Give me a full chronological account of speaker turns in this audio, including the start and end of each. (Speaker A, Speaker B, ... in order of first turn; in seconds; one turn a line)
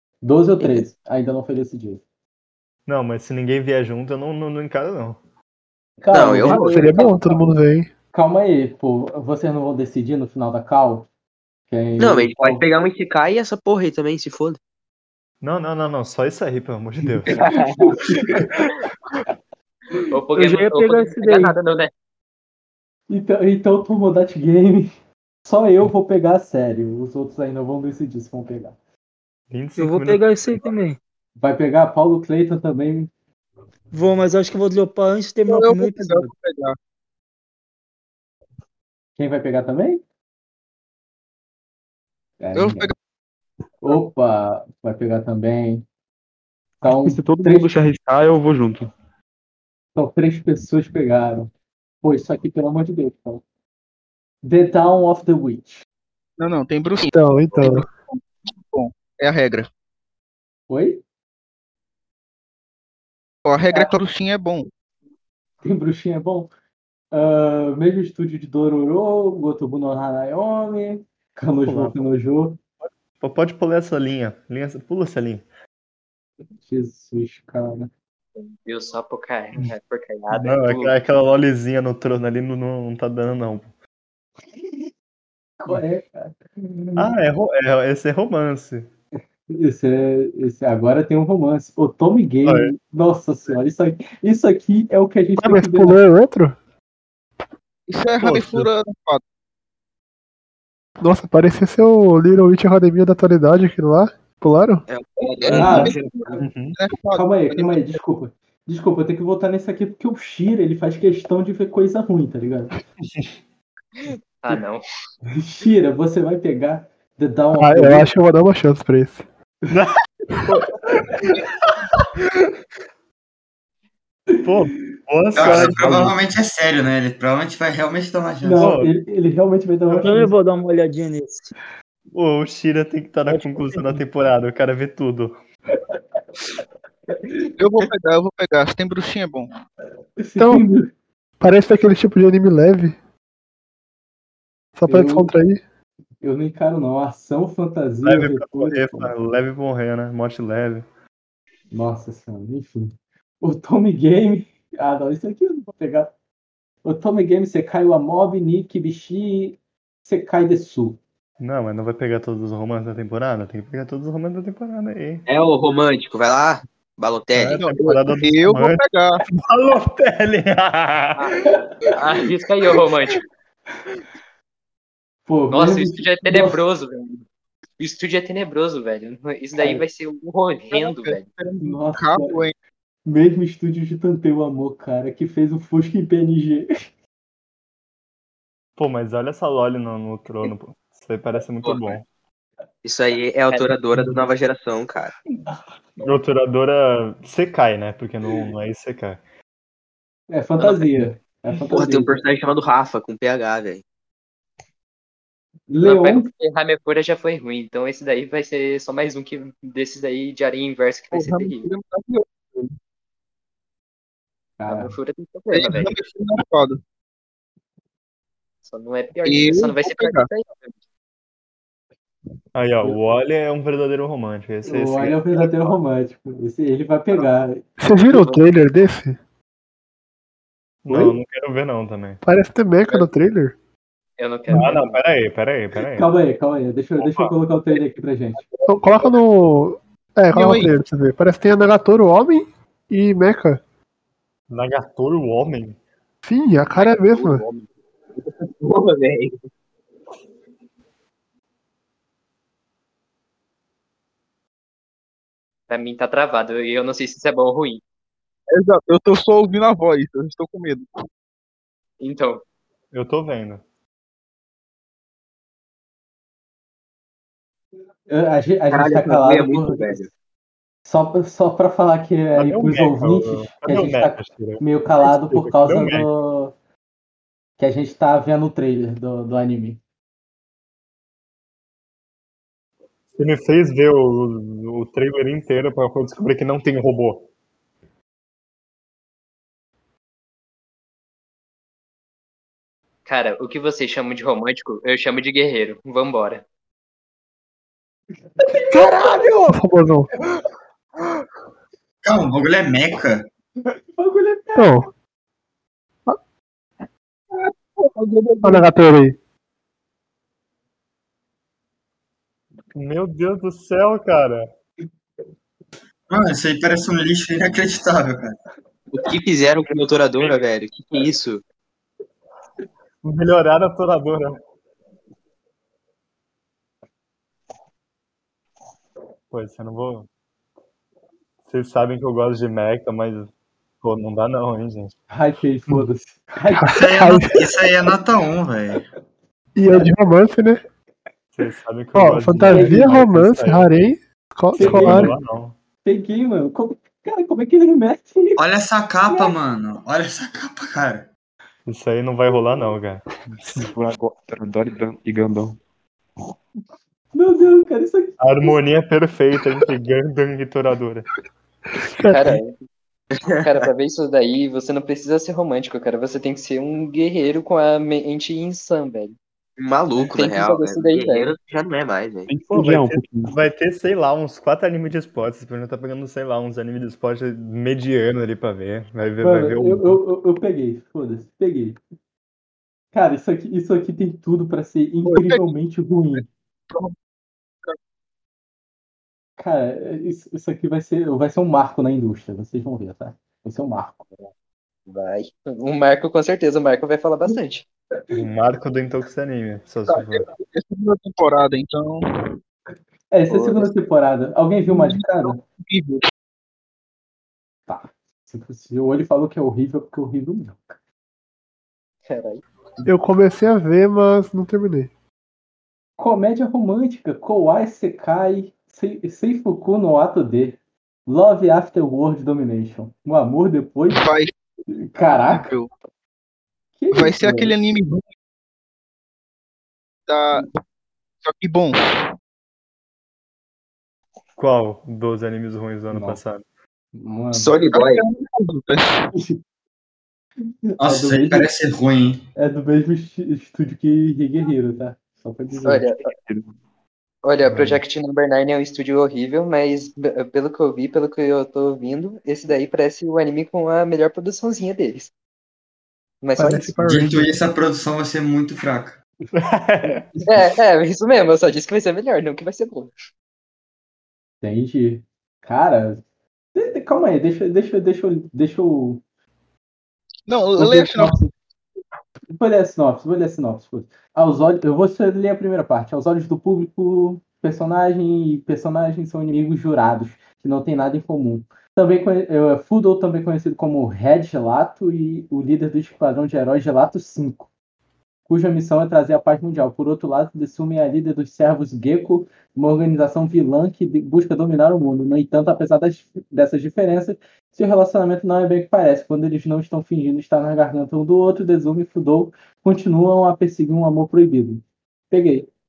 Speaker A: 0.2-2.0
Speaker B: 2.9-5.2
Speaker A: 6.0-7.4
Speaker C: 6.1-7.1
Speaker D: 6.4-7.9
Speaker A: 8.1-11.1
Speaker A: 11.7-12.6
Speaker C: 12.0-14.6
Speaker B: 15.4-17.6
Speaker C: 17.3-18.0
Speaker A: 17.9-18.5
Speaker E: 20.1-21.9
Speaker F: 20.4-21.6
Speaker A: 23.1-24.9
Speaker A: 25.4-28.8
Speaker B: 29.5-30.7
Speaker F: 29.8-31.0
Speaker A: 31.4-33.1
Speaker F: 33.9-36.3
Speaker G: 35.5-36.8
Speaker A: 39.2-40.0
Speaker A: 42.4-42.9
Speaker G: 42.5-43.0
Speaker A: 43.8-45.9
Speaker A: 46.8-47.8
Speaker H: 46.9-48.9
Speaker A: 50.0-51.5
Speaker A: 52.0-53.4
Speaker A: 54.4-55.9
Speaker G: 56.4-59.7
Speaker D: 57.1-57.9
Speaker A: 60.7-61.0
Speaker G: 63.5-64.7
Speaker A: 65.6-66.5
Speaker A: 67.1-72.6
Speaker B: 71.7-72.1
Speaker B: 73.2-75.5
Speaker A: 76.6-77.9
Speaker E: 78.4-81.0
Speaker B: 80.3-83.7
Speaker A: 85.6-87.1
Speaker B: 87.0-88.9
Speaker A: 89.5-96.0
Speaker B: 92.5-92.7
Speaker D: 95.4-96.6
Speaker G: 97.9-99.2
Speaker B: 98.2-98.7
Speaker D: 101.0-104.8
Speaker C: 104.9-106.4
Speaker G: 105.4-108.0
Speaker A: 105.5-106.0
Speaker B: 106.4-106.8
Speaker A: 107.2-112.7
Speaker E: 114.0-114.9
Speaker A: 115.3-118.1
Speaker D: 117.5-119.2
Speaker B: 119.7-120.0
Speaker B: 120.5-121.5
Speaker B: 124.4-126.1
Speaker I: 125.3-128.7
Speaker H: 125.5-126.2
Speaker A: 128.4-130.3
Speaker B: 128.6-128.9
Speaker F: 129.9-131.5
Speaker B: 132.1-135.4
Speaker G: 137.6-139.5
Speaker A: 140.2-140.9
Speaker D: 140.4-140.7
Speaker D: 141.4-143.0
Speaker D: 144.8-145.6
Speaker A: 144.9-145.3
Speaker A: 146.2-149.1
Speaker B: 148.0-150.9
Speaker A: 151.7-156.1
Speaker A: 156.8-161.0
Speaker B: 161.4-165.3
Speaker C: 165.3-167.6
Speaker B: 167.3-171.6
Speaker G: 167.5-169.2
Speaker E: 171.2-173.2
Speaker A: 175.3-176.6
Speaker E: 175.5-177.2
Speaker E: 177.8-181.3
Speaker G: 180.7-182.5
Speaker A: 181.6-182.4
Speaker A: 183.1-186.7
Speaker B: 188.8-192.1
Speaker C: 192.8-195.1
Speaker E: 193.5-193.8
Speaker B: 196.0-199.2
Speaker A: 200.3-202.2
Speaker E: 200.6-201.0
Speaker C: 201.7-203.8
Speaker A: 205.7-206.3
Speaker E: 205.8-211.7
Speaker G: 211.1-212.7
Speaker A: 214.6-214.9
Speaker E: 214.7-215.9
Speaker G: 215.5-216.8
Speaker E: 218.6-220.7
Speaker G: 219.2-220.3
Speaker B: 222.6-225.8
Speaker A: 224.7-227.6
Speaker D: 227.8-229.2
Speaker B: 230.8-232.2
Speaker D: 230.9-231.2
Speaker D: 232.2-233.6
Speaker E: 234.2-235.0
Speaker B: 234.5-236.1
Speaker A: 235.9-238.4
Speaker D: 238.7-243.6
Speaker G: 240.3-240.7
Speaker B: 244.5-245.8
Speaker D: 246.2-247.4
Speaker E: 246.8-247.4
Speaker C: 248.5-249.3
Speaker E: 255.7-257.8
Speaker G: 258.5-260.9
Speaker E: 262.0-262.4
Speaker B: 262.9-263.6
Speaker A: 268.1-270.0
Speaker C: 268.7-270.1
Speaker A: 270.9-276.5
Speaker B: 272.3-276.1
Speaker A: 277.6-279.8
Speaker B: 283.2-287.3
Speaker E: 293.1-296.4
Speaker A: 298.4-299.6
Speaker D: 298.7-300.1
Speaker I: 302.0-303.3
Speaker A: 304.0-304.9
Speaker D: 304.6-304.9
Speaker G: 307.9-308.7
Speaker D: 308.4-309.2
Speaker B: 312.8-314.5
Speaker I: 316.1-318.4
Speaker C: 318.9-321.4
Speaker B: 323.0-324.4
Speaker B: 329.3-330.1
Speaker B: 331.5-333.3
Speaker B: 333.8-334.9
Speaker A: 335.1-336.8
Speaker D: 336.5-337.5
Speaker I: 336.8-338.8
Speaker D: 339.6-340.6
Speaker B: 341.3-343.8
Speaker D: 341.9-345.2
Speaker A: 342.4-343.1
Speaker A: 344.6-345.2
Speaker B: 344.6-345.6
Speaker A: 345.8-348.4
Speaker I: 348.4-351.1
Speaker A: 349.1-349.4
Speaker B: 351.7-353.7
Speaker H: 353.6-355.6
Speaker A: 357.1-358.6
Speaker B: 358.2-361.1
Speaker D: 361.9-362.4
Speaker E: 362.1-362.6
Speaker C: 363.2-363.7
Speaker E: 363.4-369.2
Speaker C: 369.6-372.3
Speaker E: 370.0-371.3
Speaker H: 372.3-373.3
Speaker B: 372.5-380.0
Speaker A: 379.2-381.8
Speaker A: 382.9-386.2
Speaker G: 385.1-385.5
Speaker G: 386.2-386.9
Speaker A: 389.4-394.1
Speaker E: 394.9-397.7
Speaker B: 398.1-400.3
Speaker G: 399.9-402.4
Speaker A: 403.1-405.4
Speaker E: 403.4-403.6
Speaker G: 404.7-406.1
Speaker A: 407.7-410.8
Speaker E: 412.1-412.4
Speaker D: 412.9-414.9
Speaker A: 416.0-424.1
Speaker G: 423.9-424.3
Speaker A: 424.7-425.5
Speaker G: 425.1-425.7
Speaker A: 426.8-427.5
Speaker G: 426.9-428.1
Speaker G: 430.1-430.5
Speaker G: 431.2-432.1
Speaker B: 434.4-436.4
Speaker A: 435.9-436.2
Speaker A: 436.9-437.5
Speaker C: 437.3-438.0
Speaker G: 437.7-439.1
Speaker A: 440.7-441.5
Speaker I: 440.8-442.3
Speaker A: 442.4-445.9
Speaker E: 445.6-446.1
Speaker H: 446.0-446.5
Speaker E: 447.2-455.1
Speaker E: 456.2-456.8
Speaker D: 456.4-457.3
Speaker I: 456.8-459.0
Speaker B: 459.3-460.2
Speaker E: 460.2-462.9
Speaker A: 464.4-466.0
Speaker A: 466.6-469.0
Speaker G: 470.3-471.3
Speaker A: 470.6-471.3
Speaker A: 472.3-487.5
Speaker A: 488.3-505.5